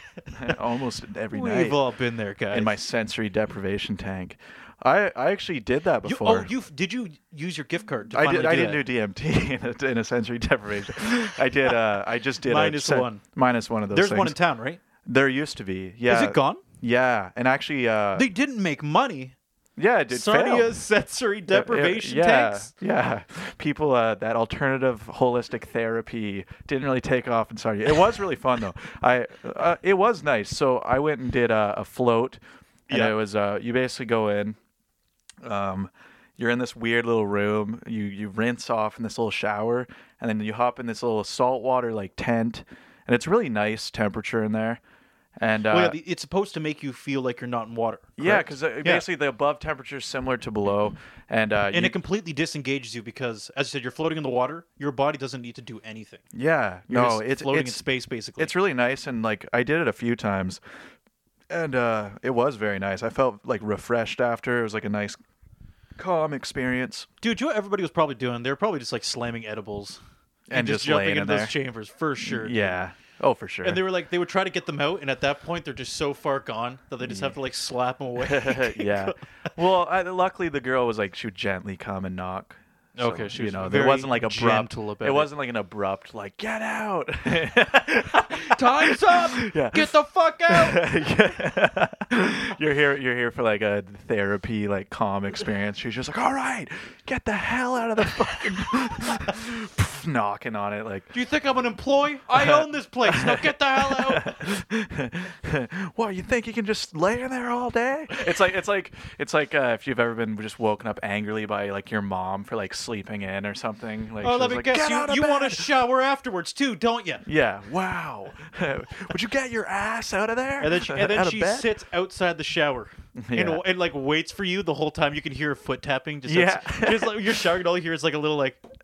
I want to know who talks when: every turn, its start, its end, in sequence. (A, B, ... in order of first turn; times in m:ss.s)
0:00.3-0:01.8 A
0:01.3-0:02.8 B
0:02.5-0:06.5 A
0:06.0-0:08.8 B
0:08.1-0:14.4 A
0:12.4-0:13.2 B
0:13.9-0:14.8 B
0:15.0-0:18.2 A
0:16.1-0:16.6 B
0:18.1-0:19.3 B
0:19.8-0:20.8 A
0:20.1-0:22.7 B
0:21.5-0:32.4 A
0:32.9-0:33.2 B
0:32.9-0:34.6 A
0:35.4-0:44.8 A
0:45.4-0:46.0 A
0:45.7-0:49.0 B
0:48.2-0:52.0 A
0:51.7-0:56.2 B
0:56.3-0:57.8 A
0:56.9-0:58.5 B
0:58.4-1:00.6 A
1:01.5-1:05.2 A
1:06.0-1:07.1 A
1:07.2-1:10.0 B
1:10.5-1:11.6 A
1:10.5-1:12.8 B
1:12.2-1:13.8 A
1:13.6-1:19.2 B
1:17.0-1:17.4 A
1:18.2-1:29.9 A
1:23.0-1:25.3 B
1:28.4-1:30.8 B
1:30.5-1:41.1 A
1:41.1-1:44.3 B
1:42.4-1:55.7 A
1:54.2-1:57.2 B
1:57.2-2:01.7 A
2:00.6-2:08.6 B
2:03.2-2:03.6 A
2:06.2-2:07.5 A